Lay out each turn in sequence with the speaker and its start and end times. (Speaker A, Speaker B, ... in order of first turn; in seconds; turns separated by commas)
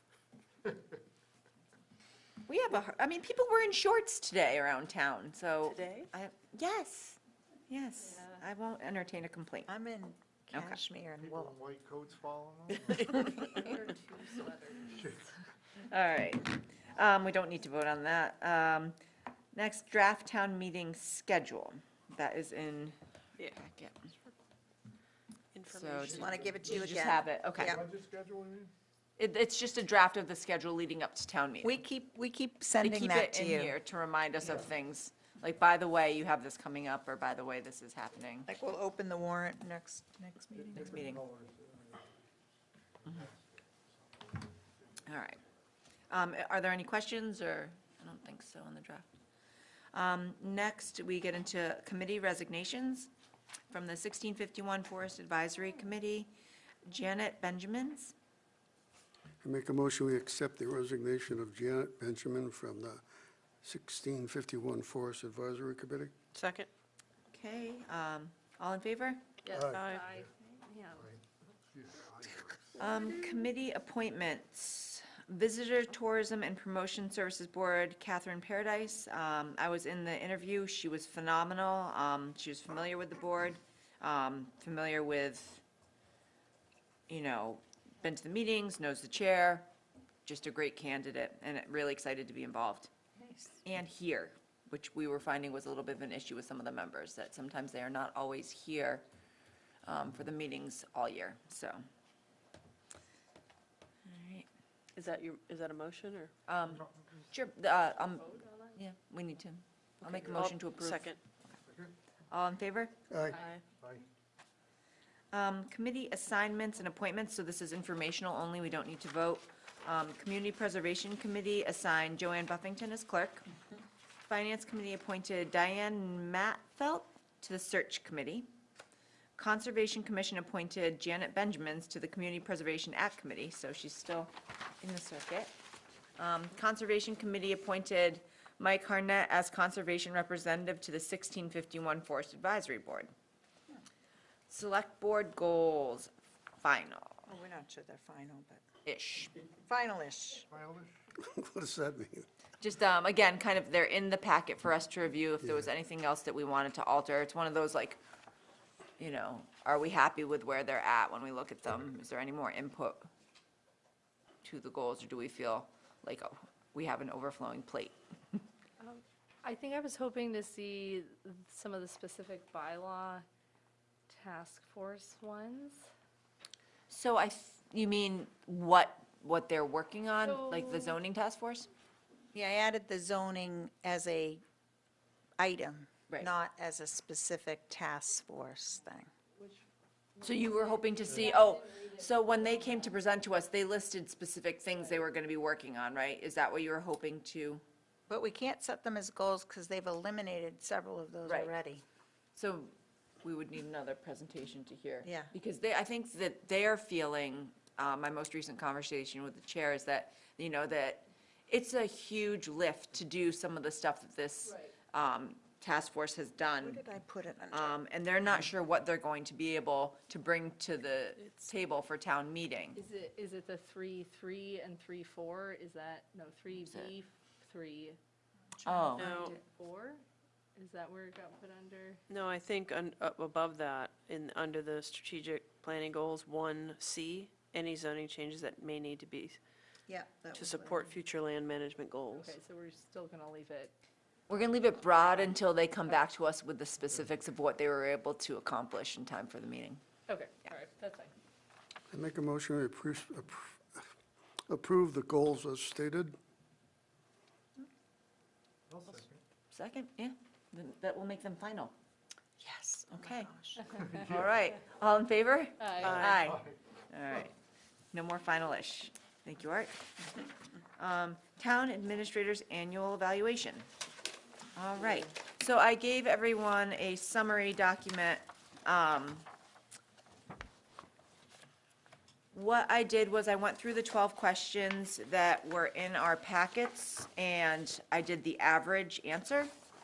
Speaker A: 2.5-9.7, Speaker B: 5.6-6.1, Speaker C: 9.7-11.6, Speaker A: 10.5-10.8, Speaker D: 11.2-13.2, Speaker B: 13.1-13.5, Speaker E: 13.5-15.1, Speaker D: 14.8-15.2, Speaker A: 15.9-19.0, Speaker A: 19.5-23.0, Speaker A: 23.6-24.1, Speaker B: 25.5-26.3, Speaker A: 25.7-27.8, Speaker D: 26.0-26.9, Speaker C: 26.1-27.8, Speaker D: 27.5-28.7, Speaker A: 29.2-31.8, Speaker C: 31.6-33.7, Speaker A: 32.8-38.5, Speaker C: 38.5-41.0, Speaker D: 40.5-42.2, Speaker A: 40.8-41.2, Speaker D: 43.0-45.0, Speaker A: 45.0-45.4, Speaker A: 46.1-49.1, Speaker A: 49.9-53.1, Speaker A: 53.7-56.3, Speaker A: 56.9-58.1, Speaker F: 59.4-63.0, Speaker F: 63.6-66.1, Speaker B: 66.3-66.7, Speaker A: 67.3-69.2, Speaker E: 69.4-71.1, Speaker F: 69.5-69.8, Speaker B: 69.7-70.0, Speaker D: 70.9-72.7, Speaker A: 72.8-85.6, Speaker A: 87.1-89.7, Speaker A: 90.2-92.9, Speaker A: 93.6-99.0, Speaker A: 99.8-101.8, Speaker A: 104.0-104.5, Speaker B: 104.9-106.3, Speaker A: 106.5-111.0, Speaker D: 106.7-107.3, Speaker E: 108.1-108.8, Speaker B: 110.0-111.2, Speaker D: 111.7-111.9, Speaker A: 112.3-112.9, Speaker F: 113.1-113.3, Speaker E: 113.3-113.6, Speaker B: 113.3-113.6, Speaker D: 113.8-114.0, Speaker A: 115.3-123.4, Speaker A: 124.3-128.5, Speaker A: 129.4-135.5, Speaker A: 136.2-143.1, Speaker A: 144.5-147.2, Speaker C: 147.3-148.6, Speaker A: 148.8-149.3, Speaker C: 149.6-150.4, Speaker D: 150.5-151.0, Speaker F: 151.2-152.3, Speaker A: 152.6-158.0, Speaker A: 159.0-163.1, Speaker A: 164.4-168.4, Speaker E: 168.8-173.2, Speaker E: 174.1-175.9, Speaker A: 176.9-181.7, Speaker E: 180.2-181.0, Speaker C: 182.3-184.4, Speaker C: 185.4-189.1, Speaker E: 189.3-189.6, Speaker E: 190.2-192.9, Speaker A: 190.2-197.6, Speaker C: 198.1-201.8, Speaker A: 201.2-201.5, Speaker A: 202.3-216.8, Speaker C: 205.0-205.3, Speaker E: 214.4-214.7, Speaker C: 216.6-217.8, Speaker A: 217.5-222.8, Speaker E: 222.7-228.0, Speaker A: 226.6-226.9, Speaker A: 228.6-229.1, Speaker B: 228.9-229.4, Speaker E: 229.0-230.0, Speaker E: 230.6-232.0, Speaker B: 232.1-239.4, Speaker C: 239.9-240.9, Speaker B: 240.3-242.3, Speaker E: 242.1-243.7, Speaker A: 244.3-249.8, Speaker E: 250.1-251.1, Speaker F: 251.9-253.9, Speaker F: 254.5-256.2, Speaker D: 258.7-259.2, Speaker A: 259.5-261.7, Speaker C: 262.4-263.6, Speaker A: 262.9-263.3, Speaker D: 263.8-264.1, Speaker A: 263.9-267.3, Speaker E: 265.6-265.9, Speaker B: 265.8-266.2, Speaker D: 265.8-266.6, Speaker A: 267.9-269.9, Speaker A: 270.8-273.7, Speaker A: 274.6-279.2, Speaker A: 282.3-289.5